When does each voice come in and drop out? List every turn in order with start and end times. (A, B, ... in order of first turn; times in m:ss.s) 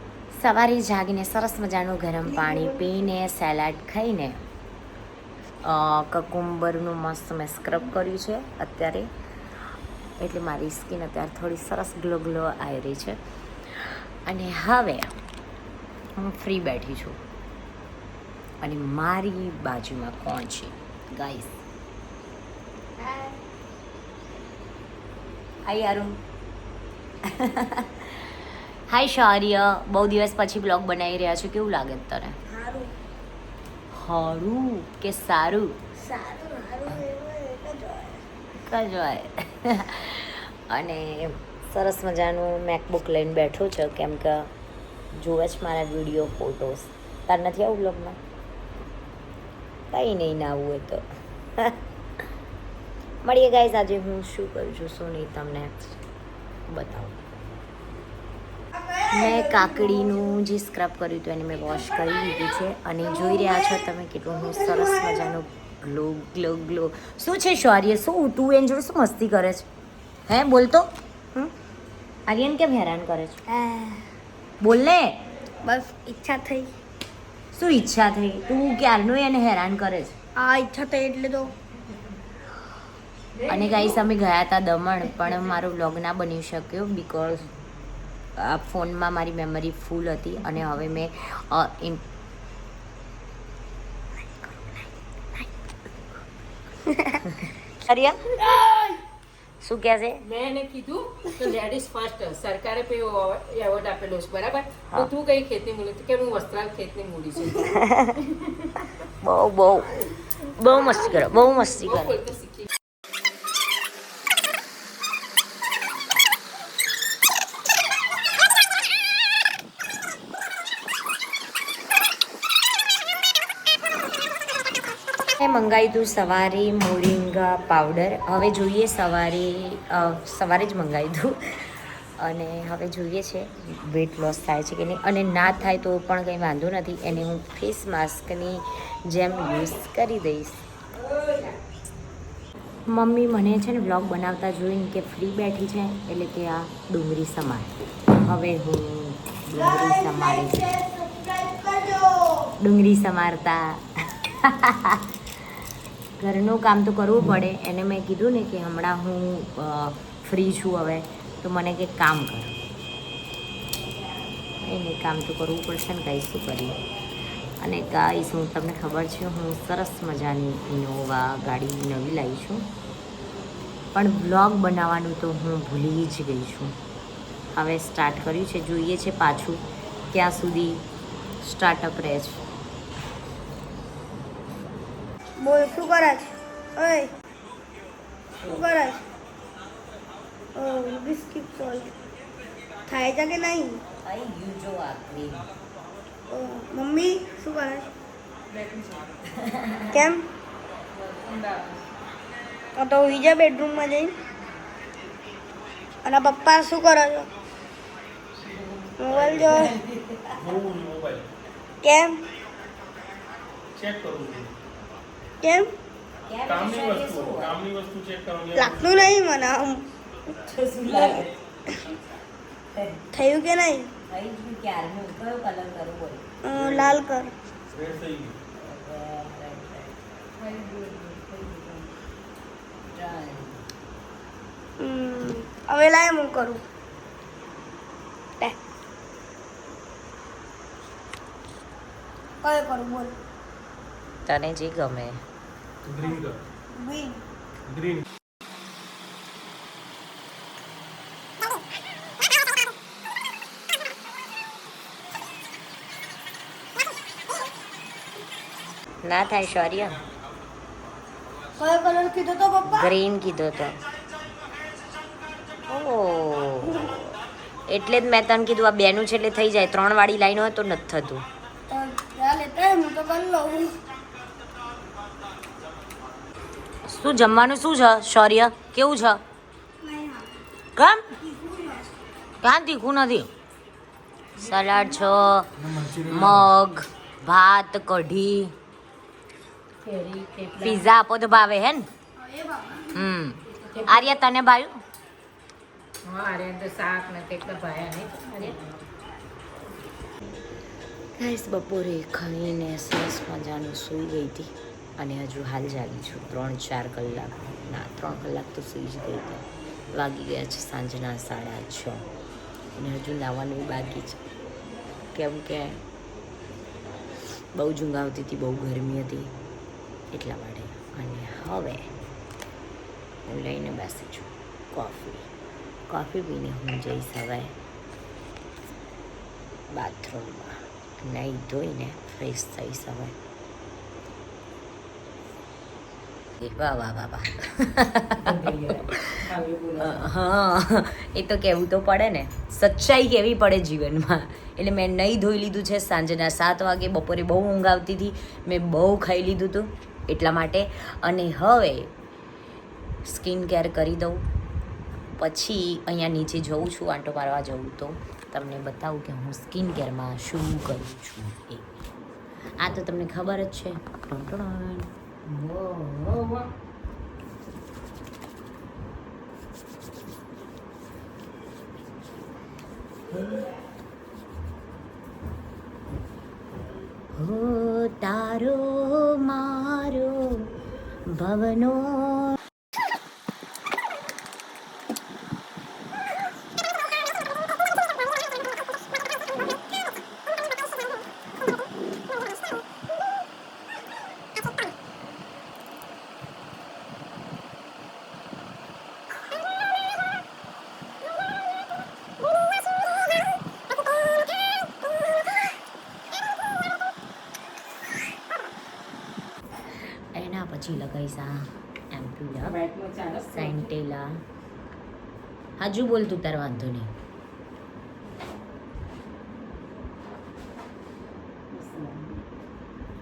0:00.3-0:04.4 A
0:05.6-0:09.1 A
0:10.2-0:15.2 A
0:16.2-0:17.2 A
0:18.6-0:21.6 A
0:23.0-0:23.4 B
0:25.6-0:26.2 A
0:27.2-0:32.4 A
0:32.5-0:32.9 B
0:33.9-0:35.8 A
0:36.0-0:38.2 B
0:38.6-0:44.5 A
0:45.1-0:48.2 A
0:49.9-0:51.0 A
0:53.2-0:55.7 A
0:56.7-0:57.4 A
0:59.0-1:09.6 A
1:04.7-1:05.2 B
1:10.3-1:11.5 A
1:12.3-1:13.4 A
1:13.5-1:14.0 B
1:14.6-1:15.2 A
1:15.6-1:16.7 B
1:17.5-1:20.1 A
1:20.4-1:21.5 B
1:23.5-1:27.5 A
1:28.4-1:32.0 A
1:34.4-1:34.8 A
1:36.9-1:37.2 B
1:37.2-1:38.4 A
1:38.4-1:38.8 B
1:39.6-1:40.2 A
1:40.2-1:47.8 C
1:47.6-1:48.2 A
1:49.2-1:52.2 A
1:50.7-1:52.7 C
2:05.4-2:20.6 A
2:22.9-2:30.8 A
2:29.8-2:32.5 B
2:32.6-2:35.1 A
2:36.2-2:42.6 A
2:44.6-2:46.8 A
2:47.6-2:52.7 A
2:53.9-2:56.8 A
2:57.5-3:00.8 A
3:01.4-3:02.4 A
3:05.4-3:07.1 B
3:08.4-3:09.0 B
3:10.5-3:11.9 B
3:12.9-3:13.8 B
3:14.0-3:15.5 A
3:16.3-3:17.9 B
3:18.5-3:19.0 C
3:19.3-3:19.9 A
3:19.9-3:20.3 B
3:21.0-3:21.8 C
3:22.8-3:24.1 B
3:26.0-3:27.3 B
3:28.7-3:30.4 A
3:29.0-3:29.7 B
3:30.4-3:31.2 D
3:31.8-3:32.2 B
3:33.7-3:34.5 D
3:35.4-3:35.7 B
3:36.3-3:37.6 A
3:36.4-3:39.1 D
3:38.5-3:39.8 B
3:40.4-3:41.3 A
3:40.8-3:41.3 B
3:42.7-3:43.0 A
3:43.1-3:43.9 B
3:44.1-3:46.3 A
3:46.4-3:47.3 B
3:46.5-3:46.9 D
3:47.7-3:48.4 D
3:48.6-3:50.0 A
3:50.4-3:51.9 C
3:52.9-3:53.6 A
3:54.8-3:56.6 B
4:02.4-4:03.1 B
4:04.2-4:05.2 A
4:05.8-4:06.4 D
4:06.7-4:07.2 B
4:07.7-4:08.0 D
4:19.0-4:20.0 A
4:21.6-4:22.9 B
4:22.6-4:23.8 A
4:25.7-4:27.1 A
4:27.7-4:31.2 A
4:31.7-4:33.8 B
4:36.8-4:39.2 A
4:39.8-4:40.4 B
4:40.8-4:41.2 A
4:41.2-4:41.9 B
4:42.4-4:43.3 A
4:44.4-4:48.5 A
4:45.8-4:46.4 D
4:49.8-4:50.8 C
4:50.6-4:51.9 A
4:52.2-4:53.0 B
4:52.9-4:54.8 A
4:53.7-4:54.0 C
4:56.0-4:58.8 C
5:01.2-5:12.0 A
5:12.7-5:14.2 A
5:15.1-5:15.8 A
5:17.5-5:19.3 A
5:20.1-5:21.9 A
5:23.2-5:25.3 A
5:25.9-5:27.5 A
5:29.7-5:33.2 A
5:36.4-5:51.9 A
5:38.2-5:40.1 C
5:53.0-5:54.2 A
5:55.2-6:01.8 A
6:02.6-6:04.9 A
6:05.2-6:06.5 C
6:13.1-6:13.4 A
6:17.1-6:22.4 A
6:50.1-6:52.6 A
6:52.4-6:53.7 C
6:53.3-6:54.2 A
6:55.6-6:56.9 A
7:01.5-7:02.2 C